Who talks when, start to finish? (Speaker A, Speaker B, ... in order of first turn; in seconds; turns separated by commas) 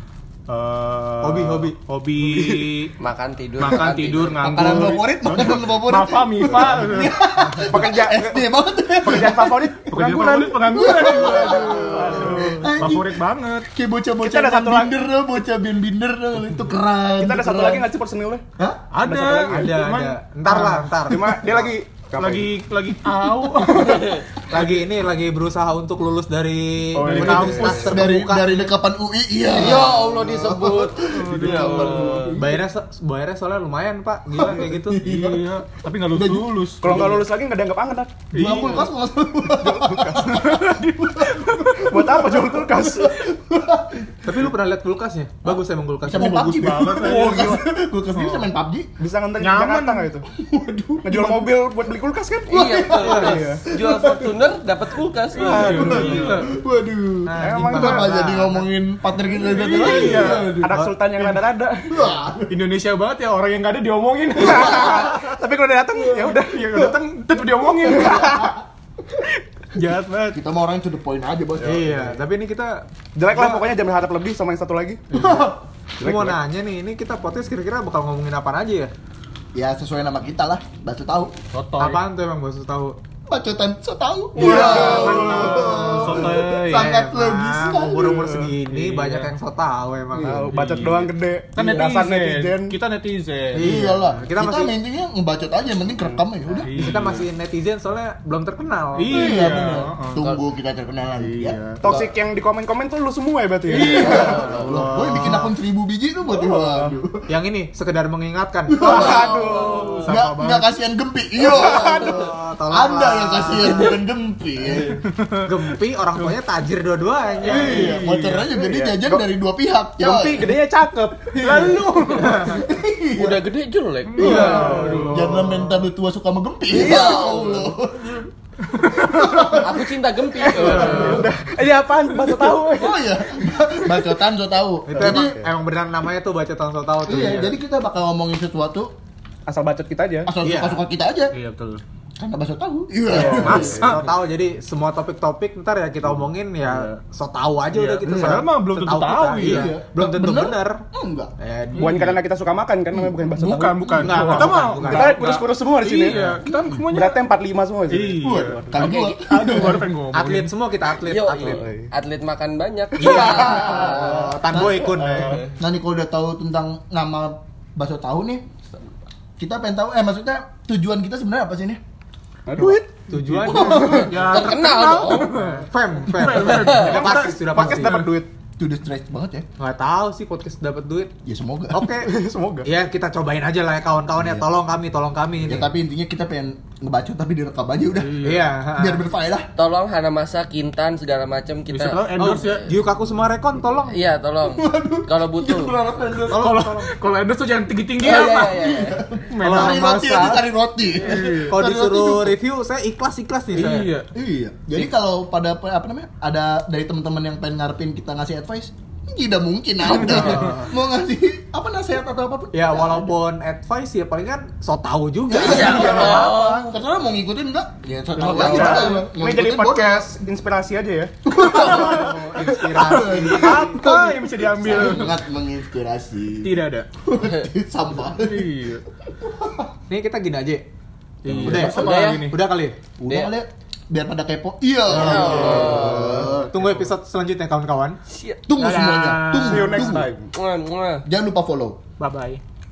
Speaker A: 0.5-2.9, Speaker B: 1.2-1.8, Speaker C: 3.0-5.0, Speaker A: 3.6-7.2, Speaker D: 4.4-9.8, Speaker E: 7.7-11.1, Speaker A: 9.8-13.7, Speaker D: 10.7-17.9, Speaker E: 14.2-14.9, Speaker E: 17.2-18.4, Speaker A: 18.9-20.2, Speaker E: 19.0-19.7, Speaker B: 19.4-21.4, Speaker E: 20.4-22.6, Speaker A: 22.1-24.2, Speaker B: 23.9-28.7, Speaker A: 27.0-27.9, Speaker E: 27.0-27.4, Speaker D: 27.1-32.5, Speaker C: 29.5-32.4, Speaker A: 31.1-32.3, Speaker B: 32.3-35.1, Speaker D: 34.4-36.5, Speaker A: 35.0-37.2, Speaker E: 36.8-38.3, Speaker A: 38.3-38.9, Speaker D: 38.3-41.4, Speaker E: 39.5-40.7, Speaker A: 40.1-41.9, Speaker E: 41.4-43.2, Speaker D: 42.8-44.5, Speaker B: 44.2-47.1, Speaker D: 45.4-48.9, Speaker A: 46.2-47.6, Speaker E: 47.0-47.6, Speaker E: 49.0-50.3, Speaker A: 49.4-50.1, Speaker D: 50.3-51.4, Speaker E: 51.0-53.6, Speaker C: 52.5-56.2, Speaker D: 52.5-54.3, Speaker B: 53.1-53.4, Speaker A: 55.3-56.5, Speaker D: 55.4-60.7, Speaker B: 55.5-56.4, Speaker B: 57.2-58.7, Speaker E: 57.4-58.1, Speaker A: 59.4-60.6, Speaker E: 60.0-62.0, Speaker B: 60.7-61.0, Speaker A: 61.2-61.4, Speaker D: 61.9-62.6, Speaker A: 62.5-65.3, Speaker E: 64.3-67.0, Speaker A: 66.1-68.5, Speaker E: 67.8-68.6, Speaker A: 69.7-70.4, Speaker D: 70.3-71.9, Speaker B: 71.6-73.7, Speaker E: 73.2-75.0, Speaker D: 75.1-76.4, Speaker B: 75.1-75.4, Speaker B: 76.0-78.9, Speaker D: 79.5-81.3, Speaker A: 81.5-82.0, Speaker B: 81.8-83.0, Speaker D: 83.3-88.5, Speaker A: 84.3-86.9, Speaker B: 84.4-90.6, Speaker A: 88.6-89.3, Speaker E: 90.1-92.8, Speaker A: 90.5-93.9, Speaker B: 93.5-94.8, Speaker D: 93.5-96.7, Speaker A: 96.6-97.2, Speaker B: 96.6-99.2, Speaker A: 99.0-100.2, Speaker D: 99.1-101.6, Speaker A: 101.1-101.8, Speaker E: 101.8-104.4, Speaker A: 103.7-105.4, Speaker D: 103.8-107.3, Speaker C: 104.0-104.8, Speaker B: 107.3-110.7, Speaker D: 108.7-115.0, Speaker E: 108.8-110.0, Speaker C: 109.7-110.0, Speaker B: 111.8-113.9, Speaker A: 115.0-115.4, Speaker B: 115.4-118.0, Speaker D: 117.4-120.5, Speaker A: 117.4-118.5, Speaker E: 118.5-119.2, Speaker E: 120.0-122.4, Speaker D: 121.3-123.4, Speaker C: 123.2-125.0, Speaker A: 124.1-125.9, Speaker D: 124.2-128.2, Speaker E: 124.4-124.8, Speaker C: 126.7-127.7, Speaker A: 128.7-129.6, Speaker D: 129.0-129.8, Speaker C: 129.5-131.3, Speaker E: 130.6-133.0, Speaker A: 130.7-131.2, Speaker D: 132.7-135.4, Speaker B: 134.9-137.6, Speaker E: 135.0-135.3, Speaker D: 137.1-138.9, Speaker E: 139.4-140.3, Speaker D: 140.2-141.3, Speaker B: 140.4-140.8, Speaker A: 141.3-141.8, Speaker D: 142.2-144.0, Speaker E: 143.1-143.8, Speaker B: 143.2-150.8, Speaker A: 143.3-144.1, Speaker A: 146.6-147.0, Speaker A: 147.7-149.7, Speaker D: 149.4-151.3, Speaker B: 151.4-152.2, Speaker A: 151.8-152.0, Speaker E: 151.8-158.9, Speaker A: 153.4-157.3, Speaker B: 154.0-155.3, Speaker D: 154.1-154.6, Speaker A: 157.9-160.5, Speaker D: 158.2-159.9, Speaker B: 160.1-161.7, Speaker C: 161.0-164.3, Speaker E: 161.4-161.8, Speaker B: 163.0-165.4, Speaker D: 163.0-168.4, Speaker C: 165.1-165.5, Speaker D: 169.4-171.8, Speaker E: 172.5-172.9, Speaker B: 172.5-174.2, Speaker D: 173.4-174.2, Speaker A: 173.4-178.1, Speaker E: 173.5-174.1, Speaker C: 173.8-175.3, Speaker B: 175.2-178.1, Speaker C: 176.3-176.9, Speaker E: 176.8-178.3, Speaker D: 178.6-179.4, Speaker B: 179.6-181.1, Speaker D: 181.2-181.8, Speaker B: 181.7-182.1, Speaker E: 181.8-182.7, Speaker B: 182.6-185.7, Speaker D: 184.1-184.5, Speaker D: 185.4-189.5, Speaker A: 188.0-188.5, Speaker B: 188.2-189.1, Speaker C: 189.6-192.7, Speaker A: 191.7-192.7, Speaker B: 192.2-194.0, Speaker C: 193.9-195.8, Speaker D: 194.5-196.5, Speaker A: 196.2-198.8, Speaker B: 196.3-196.9, Speaker C: 198.0-199.0, Speaker D: 198.4-202.4, Speaker A: 199.3-199.9, Speaker B: 199.4-200.5, Speaker A: 201.0-201.5, Speaker B: 201.5-203.9, Speaker A: 203.5-204.1, Speaker D: 204.1-213.2, Speaker B: 210.0-210.7, Speaker A: 210.0-210.6, Speaker B: 212.5-216.3, Speaker D: 215.3-220.0, Speaker C: 215.4-216.7, Speaker C: 218.2-219.0, Speaker E: 218.3-221.1, Speaker A: 218.5-218.9, Speaker D: 221.2-228.5, Speaker B: 221.4-223.8, Speaker A: 222.8-225.2, Speaker A: 226.4-226.9, Speaker A: 228.1-228.8, Speaker D: 229.1-229.7, Speaker B: 229.9-230.7, Speaker A: 231.2-232.4, Speaker D: 231.3-231.8, Speaker B: 231.3-232.8, Speaker C: 231.7-232.3, Speaker D: 233.0-236.5, Speaker C: 233.1-233.3, Speaker C: 234.9-236.2, Speaker B: 235.0-235.6, Speaker A: 235.1-236.7, Speaker B: 236.2-238.0, Speaker C: 238.1-238.4, Speaker D: 238.5-240.1, Speaker A: 238.6-240.3, Speaker C: 240.3-241.0, Speaker D: 241.0-241.8, Speaker A: 242.0-242.4